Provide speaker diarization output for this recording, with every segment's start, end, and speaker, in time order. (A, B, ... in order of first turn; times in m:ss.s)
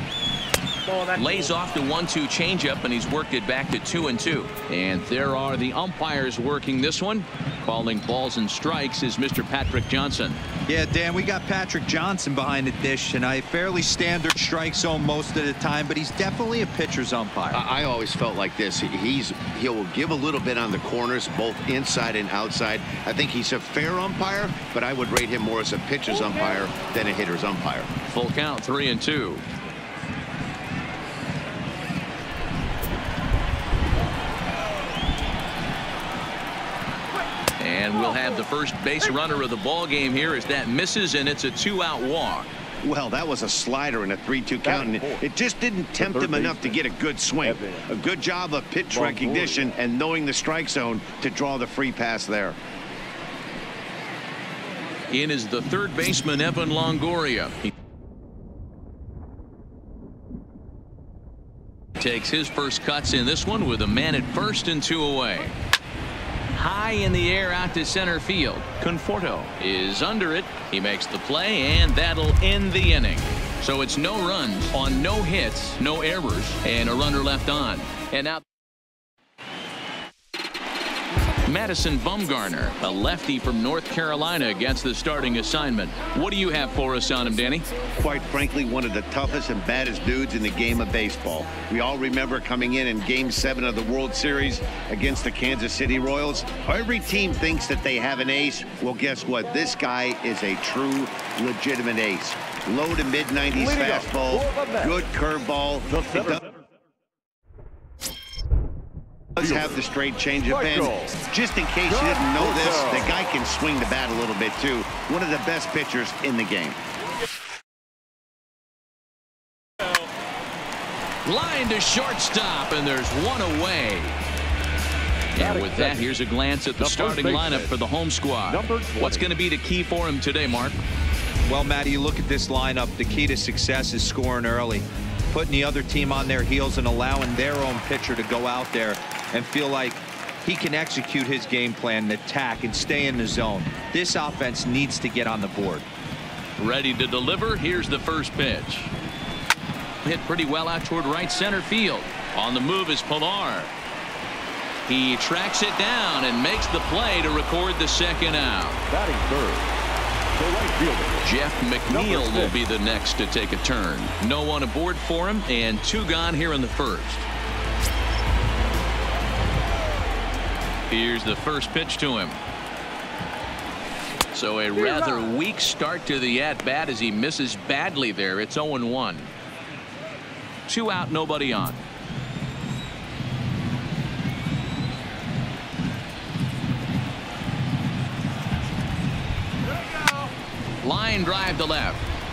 0:00.9-0:10.4 A
0:10.7-0:17.6 B
0:17.5-0:27.9 C
0:28.1-0:29.4 A
0:37.6-0:42.5 A
0:42.8-0:52.6 C
0:44.6-0:45.2 D
0:46.0-0:46.8 D
0:47.4-0:47.8 D
0:48.9-0:49.7 D
0:55.1-0:57.7 A
1:02.0-1:05.6 A
1:06.5-1:18.4 A
1:21.4-1:27.7 A
1:28.0-1:46.4 C
1:43.5-1:44.9 D
1:45.9-1:46.4 D
1:49.4-1:56.8 C
1:49.4-1:49.8 D
1:50.4-1:51.1 D
1:51.9-1:53.1 D
2:01.2-2:04.2 A
2:05.4-2:10.8 A
2:05.4-2:06.0 D
2:06.8-2:07.7 D
2:08.5-2:09.3 D
2:11.5-2:25.9 B
2:26.6-2:28.9 A
2:30.0-2:33.7 A
2:34.9-2:38.8 A
2:38.9-2:39.7 D
2:40.4-2:41.3 D
2:41.2-2:47.3 A
2:41.9-2:42.5 D
2:50.9-2:52.4 A
2:54.3-2:59.3 A
3:00.7-3:01.8 A
3:10.8-3:12.0 A